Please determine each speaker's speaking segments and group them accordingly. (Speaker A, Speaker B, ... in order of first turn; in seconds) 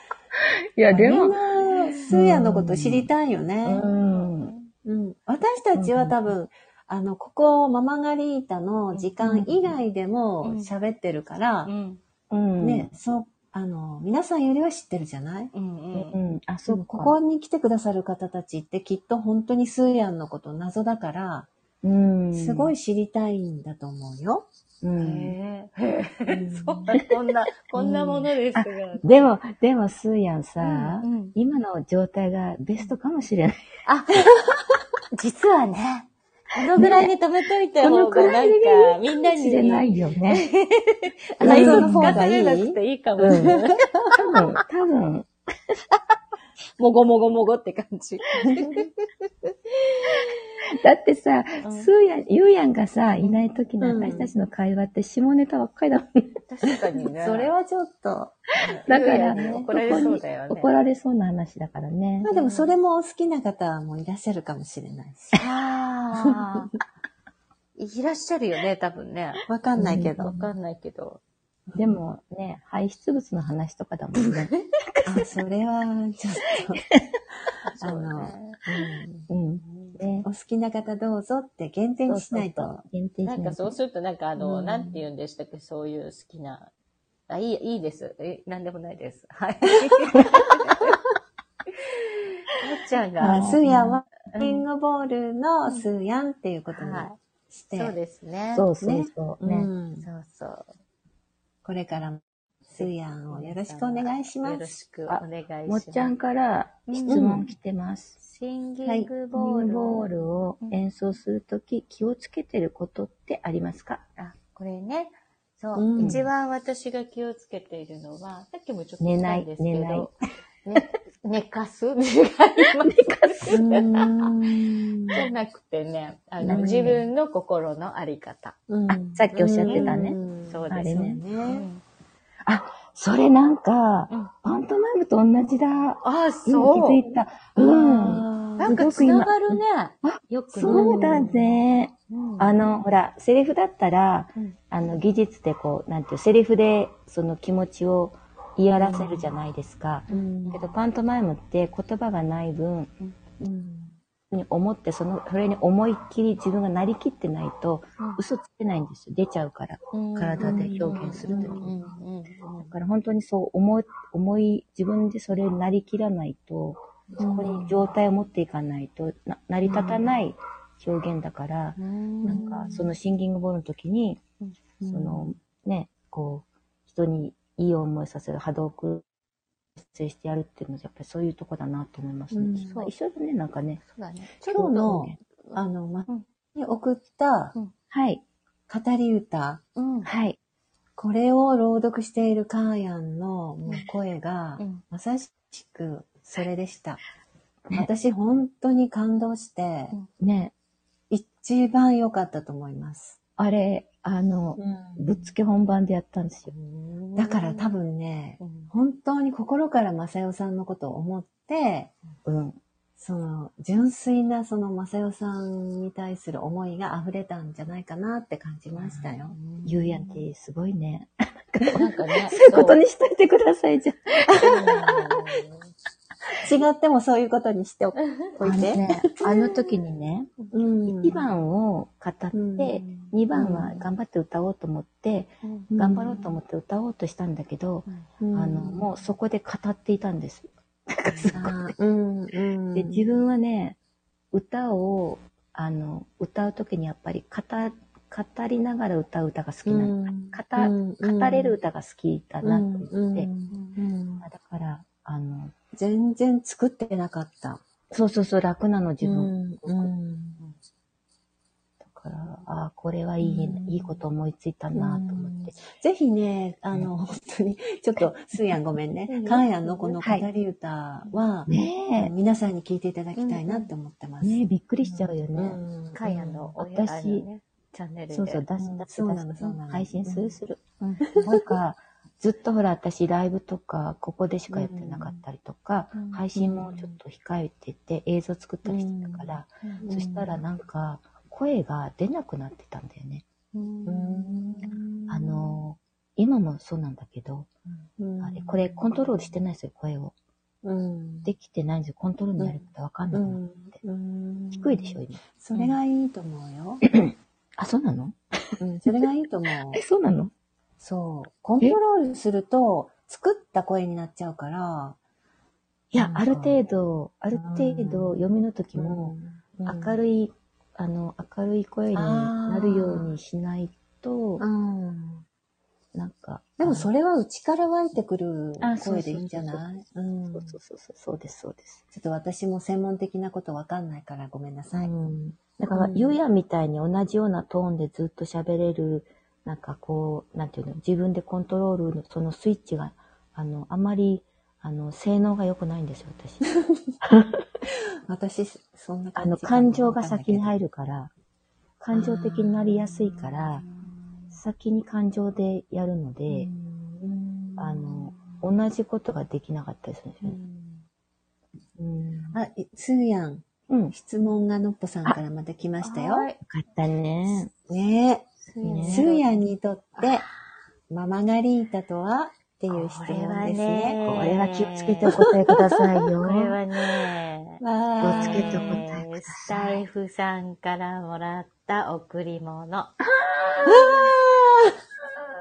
Speaker A: 0.8-1.4, 2.1-3.1, 3.6-4.5, 5.8-6.3, 9.2-9.7, 12.3-12.9, 15.9-17.1, 21.8-22.7, 24.8-25.3, 27.8-33.6, 36.7-37.1, 37.8-40.4, 41.4-42.2, 43.2-45.3, 50.7-56.4, 58.9-62.3, 69.8-70.2, 71.8-74.5, 79.3-80.3, 82.1-83.8, 93.2-94.0, 98.5-99.7, 105.1-108.2, 109.3-114.0, 119.0-120.1, 122.8-123.6, 126.4-127.0, 128.9-130.2, 130.7-131.2, 132.4-152.9, 154.3-161.8, 162.6-174.2, 174.9-179.0, 179.8-183.8, 184.4-185.1, 187.9-188.2, 190.0-190.4, 200.2-200.5, 203.4-206.5, 212.2-212.6, 219.6-225.0, 228.4-230.3, 230.8-241.7, 242.7-243.8, 244.3-253.3, 254.2-255.5, 257.9-259.9, 261.8-265.6, 270.0-270.2, 271.5-272.1, 274.2-275.6, 276.1-277.2, 278.1-280.6, 281.1-293.2, 295.1-297.5, 298.2-300.1, 301.2-303.7, 304.5-305.7, 306.8-308.6, 309.7-310.3, 315.9-319.1, 319.6-324.4, 325.9-326.9, 328.6-329.6, 330.3-331.8, 334.8-346.5, 347.0-347.4, 349.1-351.1, 351.8-353.6, 354.3-356.5, 357.6-360.4, 361.8-362.4, 363.7-363.9, 366.4-367.5, 368.6-369.1, 374.0-376.6, 378.0-379.8, 383.0-384.1
Speaker B: 0.9-3.9, 4.8-11.7, 12.6-15.5, 16.7-21.5, 22.3-24.5, 26.3-26.9, 41.4-42.8, 43.3-44.1, 53.8-54.3, 57.2-60.0, 62.2-65.4, 69.5-70.4, 75.0-76.8, 77.8-79.2, 80.2-82.8, 84.4-85.0, 93.2-98.0, 98.8-100.0, 101.6-104.7, 107.0-107.5, 108.8-109.1, 115.8-116.2, 123.5-125.3, 126.4-127.0, 128.7-131.7, 137.6-138.8, 140.6-141.5, 148.8-149.1, 150.1-150.6, 153.4-153.9, 160.4-161.8, 167.2-167.7, 169.6-170.0, 172.2-172.9, 174.8-175.3, 182.3-182.7, 184.5-187.5, 188.7-189.6, 191.0-197.0, 197.7-199.9, 201.1-203.2, 204.6-205.2, 207.2-211.9, 213.0-219.4, 224.3-225.0, 226.4-228.9, 230.5-231.3, 232.3-232.8, 233.3-233.8, 235.7-236.3, 238.2-238.9, 241.3-243.0, 249.7-251.6, 252.4-254.2, 255.7-257.6, 259.0-260.4, 263.2-264.0, 264.7-276.5, 278.6-280.4, 281.1-281.4, 284.5-285.2, 286.4-286.7, 288.6-290.4, 293.9-295.6, 298.0-299.0, 300.6-301.3, 303.1-306.8, 308.6-309.8, 310.8-315.0, 315.9-316.6, 317.3-320.0, 321.9-323.1, 324.4-325.2, 326.6-330.5, 331.9-334.9, 335.7-336.2, 347.7-350.5, 351.9-354.3, 356.3-358.4, 360.2-360.8, 362.3-366.3, 367.7-368.3, 368.9-370.3, 370.9-374.0, 375.1-375.8, 377.6-378.8, 383.7-384.8
Speaker C: 3.8-4.7, 10.4-10.7, 11.7-12.0, 15.5-16.1, 25.0-29.3, 30.6-31.3, 33.8-34.4, 35.1-43.8, 46.8-48.9, 51.6-51.9, 56.5-57.5, 58.6-60.7, 62.2-62.7, 65.3-66.7, 67.8-69.4, 70.2-71.2, 74.1-74.6, 77.6-78.6, 79.6-80.0, 83.2-86.7, 87.3-90.9, 92.6-93.5, 94.3-94.6, 96.7-97.2, 97.7-98.7, 100.0-100.7, 102.7-106.1, 106.9-107.4, 108.2-110.0, 114.2-120.1, 120.6-124.1, 125.1-128.6, 129.6-130.9, 131.4-131.8, 136.0-137.0, 138.6-141.3, 142.1-142.6, 150.1-150.6, 159.9-162.7, 167.4-167.7, 171.8-172.4, 182.6-182.9, 183.8-186.2, 189.8-190.1, 206.5-207.7, 208.4-208.7, 219.3-220.2, 221.7-222.8, 224.4-225.6, 232.8-233.1, 235.4-235.7, 253.5-253.8, 269.1-270.0, 273.1-273.7, 275.9-278.4, 280.8-281.1, 285.9-286.9, 289.6-289.9, 293.5-294.7, 365.8-366.4, 368.4-369.4, 372.7-375.2, 376.2-382.9